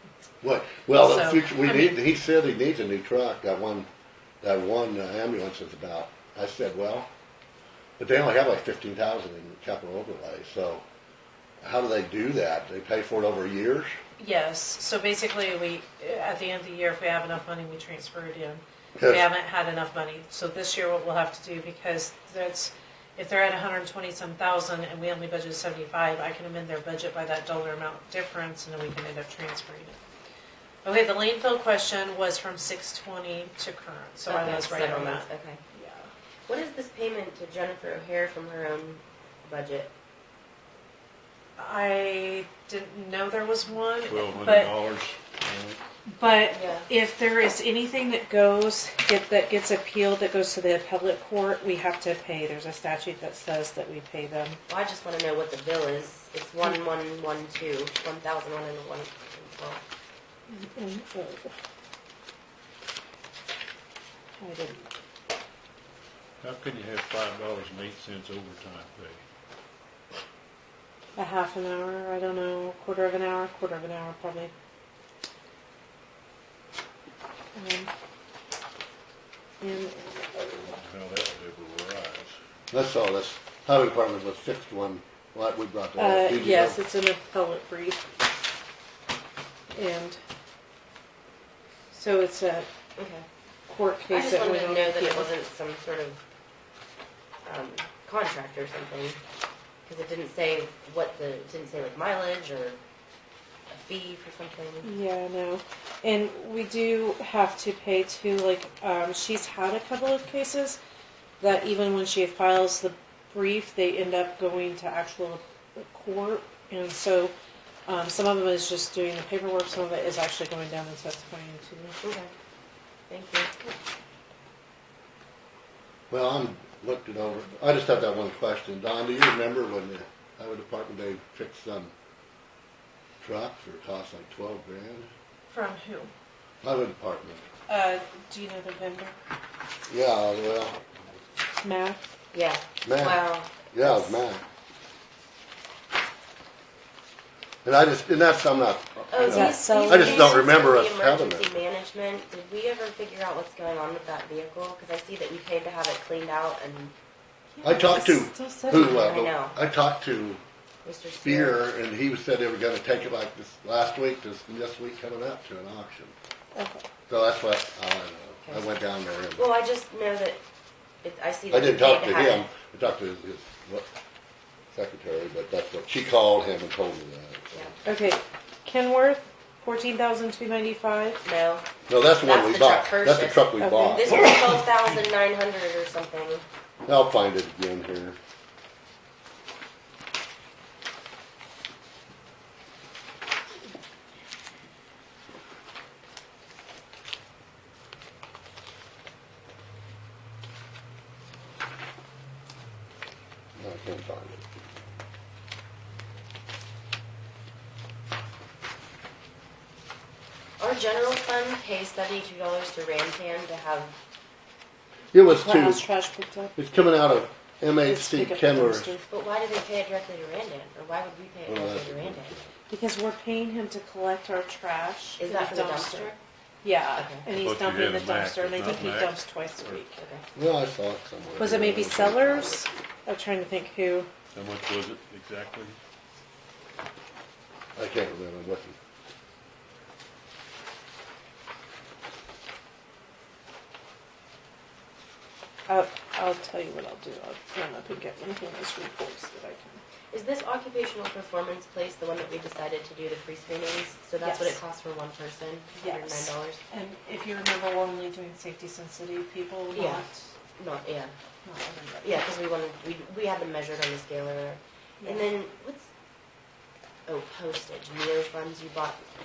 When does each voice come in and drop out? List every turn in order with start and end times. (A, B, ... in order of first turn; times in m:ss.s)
0:00.4-0:03.9 A
0:01.0-0:02.0 B
0:04.4-0:07.1 A
0:08.0-0:10.8 A
0:11.6-0:14.0 A
0:14.2-0:30.0 B
0:19.0-0:19.2 A
0:30.8-0:36.1 B
0:34.3-0:35.6 C
0:36.5-0:39.9 C
0:41.6-0:44.7 B
0:44.1-0:45.8 D
0:46.1-0:54.6 B
0:46.5-0:46.9 C
0:54.7-0:59.8 C
1:00.5-1:01.5 B
1:04.4-1:04.9 B
1:06.4-1:09.2 D
1:11.2-1:14.5 B
1:17.5-1:17.9 B
1:19.6-1:20.7 B
1:20.6-1:22.4 D
1:22.7-1:26.8 A
1:26.0-1:28.1 B
1:29.7-1:30.2 B
1:31.9-1:32.7 B
1:33.0-1:33.2 C
1:33.7-1:35.3 B
1:34.1-1:36.2 C
1:37.4-1:39.2 C
1:39.8-1:42.8 C
1:43.7-1:44.9 C
1:44.8-1:50.8 B
1:51.4-1:57.3 B
1:57.8-2:02.0 B
2:02.0-2:02.3 C
2:03.1-2:03.5 C
2:06.1-2:11.9 A
2:13.2-2:15.1 A
2:15.5-2:16.1 B
2:16.6-2:17.4 A
2:17.7-2:19.2 B
2:19.9-2:20.8 A
2:21.6-2:22.0 B
2:22.3-2:24.2 C
2:22.8-2:24.4 A
2:27.6-2:31.5 A
2:29.1-2:36.9 C
2:29.2-2:30.5 B
2:37.6-2:39.3 B
2:37.6-2:40.4 A
2:38.9-2:39.6 C
2:40.8-2:41.6 C
2:41.2-2:46.1 A
2:46.5-2:46.8 B
2:47.1-2:49.5 A
2:49.4-2:50.4 C
2:51.0-2:52.5 C
2:51.5-2:53.9 A
2:54.7-2:57.7 A
2:57.8-3:01.2 B
3:01.2-3:01.7 C
3:01.9-3:04.3 A
3:02.2-3:06.4 C
3:03.6-3:04.1 B
3:06.8-3:08.2 A
3:23.6-3:24.6 A
3:30.6-3:34.0 C
3:35.1-3:35.9 A
3:35.3-3:36.6 B
3:36.6-3:39.0 A
3:37.8-3:39.0 B
3:39.1-3:42.3 C
3:41.5-3:42.5 A
3:42.7-3:46.1 B
3:45.2-3:46.2 C
3:46.6-3:50.0 B
3:47.0-3:47.3 C
3:47.3-3:49.8 D
3:50.0-3:50.2 C
3:50.4-3:52.6 A
3:51.4-3:54.1 B
3:54.3-3:55.8 D
3:57.8-3:58.8 A
4:05.7-4:09.8 B
4:10.1-4:16.6 C
4:14.2-4:14.6 B
4:15.8-4:20.2 B
4:19.7-4:20.0 C
4:20.6-4:21.1 C
4:21.4-4:22.2 B
4:22.0-4:25.9 C
4:25.0-4:25.3 B
4:27.0-4:29.0 C